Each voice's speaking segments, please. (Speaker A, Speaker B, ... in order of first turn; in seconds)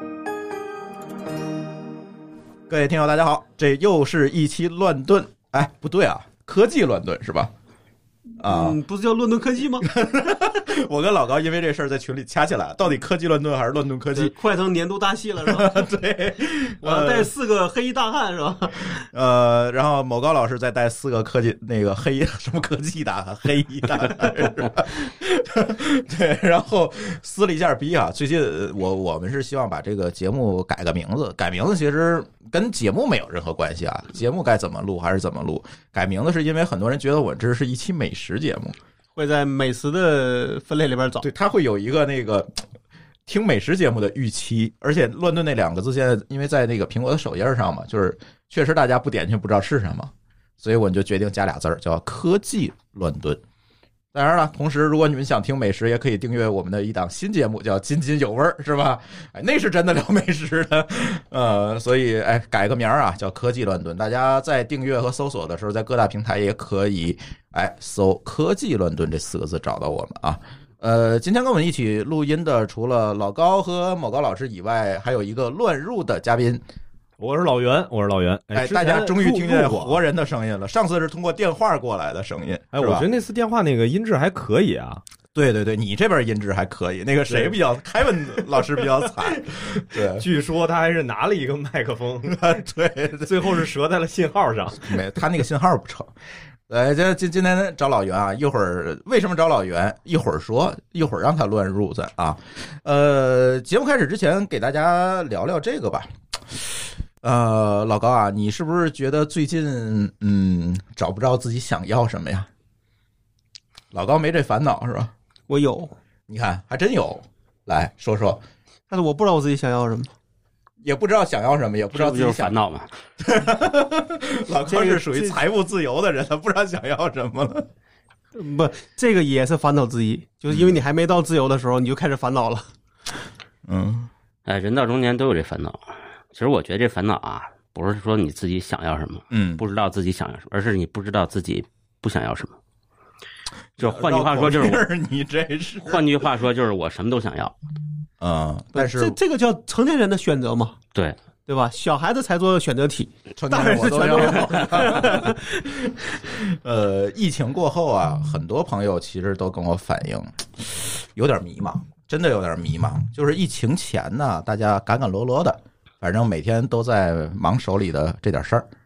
Speaker A: 2.7-7.5, 8.4-8.8, 9.8-14.3, 15.4-17.3, 19.0-38.8, 41.2-42.6, 43.3-53.4, 54.1-76.6, 78.5-83.1, 85.3-90.3, 92.3-93.7, 94.8-96.1, 96.7-112.5, 113.9-115.1, 116.3-118.4, 120.8-122.6, 123.2-127.7, 130.5-130.8, 133.7-134.1, 139.3-139.6, 143.8-146.0, 148.2-149.2, 153.4-160.4, 161.2-168.7
Speaker B: 8.4-9.9, 14.2-15.9, 16.8-18.9, 39.1-41.2, 115.5-115.9, 118.9-120.1, 124.7-125.4, 128.3-132.7, 148.8-150.8, 151.5-155.5
Speaker C: 77.2-80.0, 82.7-85.0, 87.3-87.5, 88.2-92.4, 93.2-95.0
Speaker D: 121.9-122.9, 134.5-135.8, 136.3-142.6, 143.8-144.9, 145.9-147.6